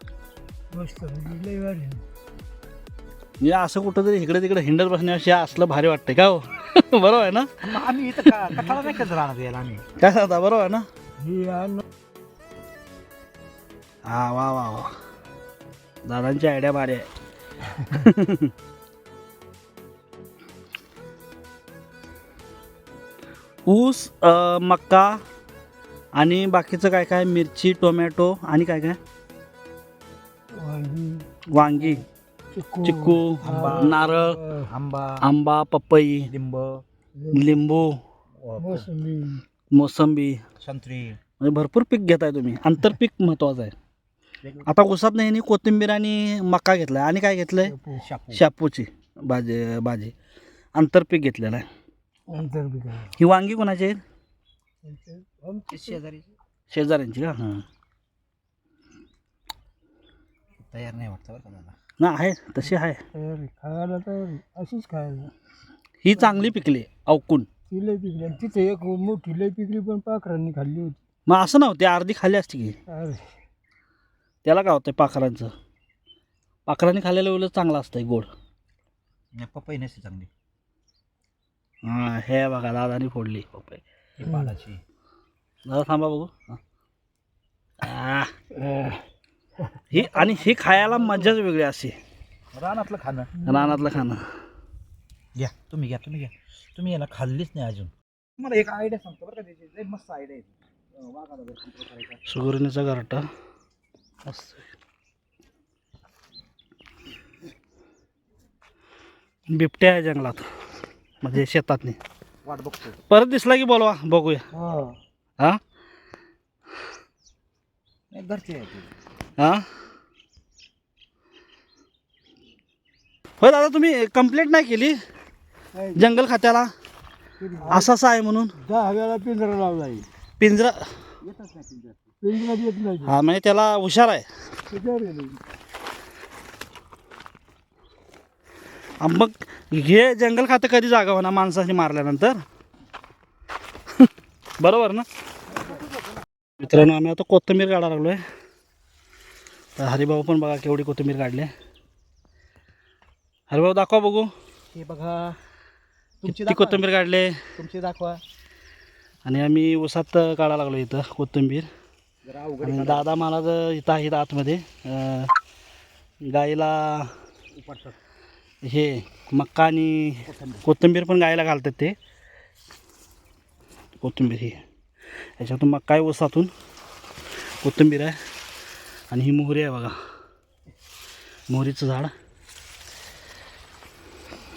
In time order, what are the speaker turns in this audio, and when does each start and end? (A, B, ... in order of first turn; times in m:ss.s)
0:00.7-0:02.0 A
0:03.4-0:07.5 B
0:07.6-0:09.8 C
0:10.0-0:10.9 B
0:11.2-0:11.8 A
0:14.1-0:14.9 B
0:16.1-0:17.1 B
0:17.8-0:18.5 B
0:23.7-0:25.2 B
0:26.2-0:29.0 B
0:30.5-0:34.7 A
0:31.5-0:32.0 B
0:32.8-0:34.4 B
0:33.4-0:35.3 C
0:35.2-0:36.3 B
0:36.3-0:36.8 C
0:37.2-0:37.6 A
0:37.3-0:38.0 B
0:38.3-0:38.9 C
0:38.6-0:39.4 A
0:39.7-0:40.4 B
0:40.6-0:41.2 C
0:41.4-0:43.8 B
0:44.7-0:47.8 B
0:47.7-0:48.0 A
0:47.9-0:48.4 C
0:48.3-0:50.1 B
0:50.8-0:51.7 B
0:52.3-0:53.1 A
0:53.2-0:54.0 B
0:54.8-0:56.0 A
0:55.7-0:56.3 C
0:56.7-0:57.6 B
1:00.6-1:01.7 C
1:02.0-1:03.0 B
1:03.1-1:05.3 A
1:06.0-1:07.5 B
1:07.7-1:11.0 A
1:11.3-1:12.8 B
1:12.9-1:13.3 A
1:14.4-1:15.5 B
1:16.7-1:18.3 B
1:19.4-1:20.3 C
1:21.8-1:23.8 B
1:24.2-1:24.8 C
1:25.7-1:26.6 B
1:27.8-1:28.3 B
1:28.6-1:29.0 A
1:29.9-1:32.0 B
1:30.0-1:30.3 C
1:30.3-1:31.3 A
1:32.5-1:33.3 C
1:33.4-1:33.9 A
1:33.4-1:34.3 B
1:35.4-1:42.2 C
1:42.3-1:43.3 B
1:44.2-1:44.6 B
1:49.5-1:50.5 B
1:51.2-1:52.0 B
1:52.4-1:53.0 C
1:53.1-1:54.4 B
1:54.6-1:54.9 C
1:58.1-1:58.9 C
1:59.4-1:59.6 B
2:03.4-2:05.0 B
2:05.7-2:06.1 A
2:06.0-2:06.7 B
2:07.4-2:07.9 C
2:07.6-2:07.9 A
2:07.7-2:08.6 B
2:08.6-2:10.1 A
2:10.4-2:10.9 B
2:11.2-2:12.1 C
2:12.2-2:13.1 A
2:13.0-2:14.3 B
2:14.7-2:15.4 A
2:19.0-2:22.4 B
2:24.6-2:25.1 B
2:25.5-2:26.1 C
2:26.6-2:28.2 B
2:29.8-2:31.5 B
2:33.5-2:34.3 B
2:34.7-2:35.4 C
2:36.2-2:36.8 C
2:36.3-2:37.4 B
2:37.6-2:38.2 C
2:39.2-2:41.7 B
2:42.2-2:43.1 C
2:42.6-2:45.3 B
2:46.2-2:47.1 B
2:47.5-2:48.0 C
2:48.6-2:52.0 B
2:50.2-2:50.7 C
2:54.0-2:54.6 B
2:55.4-2:56.5 B
2:57.6-2:58.2 B
2:59.1-3:00.0 B
3:01.5-3:02.1 B